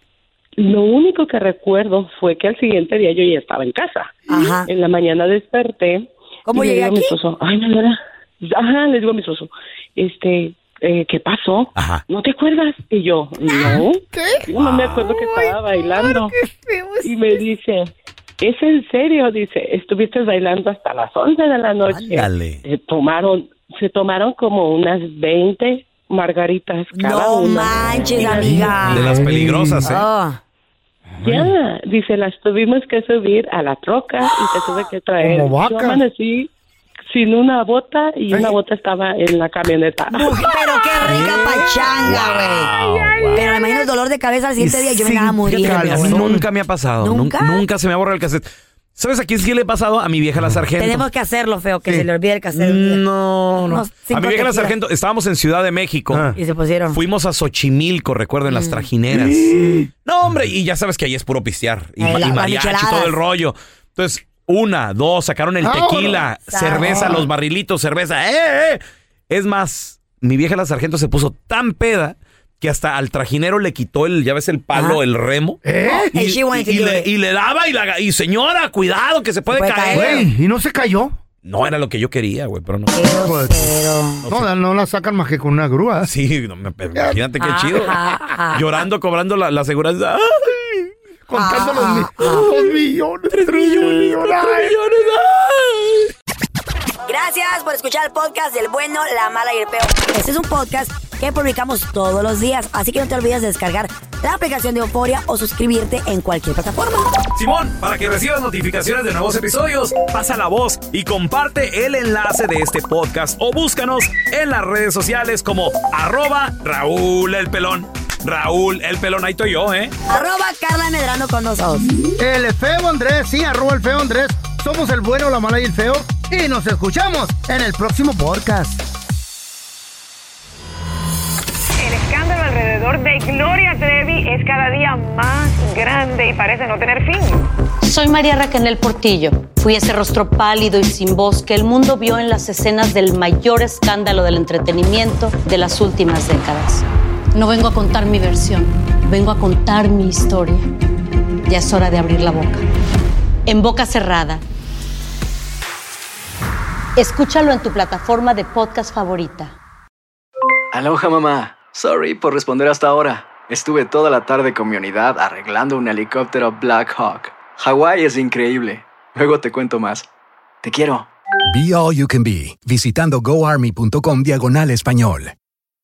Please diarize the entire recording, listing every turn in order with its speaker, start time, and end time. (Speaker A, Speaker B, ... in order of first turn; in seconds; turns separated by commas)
Speaker A: 0.6-16.4, Speaker B: 4.3-4.7, Speaker B: 6.5-7.2, Speaker C: 11.8-12.0, Speaker C: 14.5-15.0, Speaker B: 16.5-17.1, Speaker A: 17.0-28.8, Speaker C: 21.9-22.6, Speaker B: 26.9-29.3, Speaker D: 28.3-30.0, Speaker C: 28.9-30.0, Speaker B: 29.8-30.4, Speaker A: 31.2-36.5, Speaker D: 35.2-36.0, Speaker A: 37.1-40.4, Speaker B: 40.1-42.7, Speaker C: 41.0-43.5, Speaker B: 43.4-46.3, Speaker D: 44.6-46.5, Speaker C: 45.5-51.1, Speaker B: 47.0-47.6, Speaker B: 50.8-53.0, Speaker C: 52.5-56.3, Speaker B: 53.7-54.8, Speaker D: 56.1-56.4, Speaker B: 56.4-57.0, Speaker C: 56.9-59.5, Speaker B: 58.5-58.9, Speaker D: 59.1-59.9, Speaker C: 60.0-80.3, Speaker B: 62.0-63.2, Speaker D: 65.6-67.2, Speaker B: 66.5-67.2, Speaker B: 74.7-75.0, Speaker D: 75.6-76.1, Speaker B: 75.9-77.1, Speaker B: 79.5-80.2, Speaker D: 79.9-81.2, Speaker C: 81.4-83.0, Speaker B: 82.9-84.2, Speaker D: 83.0-86.1, Speaker C: 86.0-88.0, Speaker D: 86.9-87.2, Speaker B: 87.4-88.7, Speaker C: 88.5-90.9, Speaker D: 91.3-94.8, Speaker B: 91.3-92.5, Speaker C: 93.3-96.1, Speaker B: 97.1-107.1, Speaker C: 107.3-119.9, Speaker B: 120.1-122.0, Speaker D: 122.2-128.8, Speaker E: 131.8-137.3, Speaker F: 137.8-150.7, Speaker F: 151.5-152.7, Speaker F: 153.5-154.4, Speaker F: 157.0-159.6, Speaker G: 160.7-170.1, Speaker G: 170.6-171.1, Speaker H: 171.5-175.3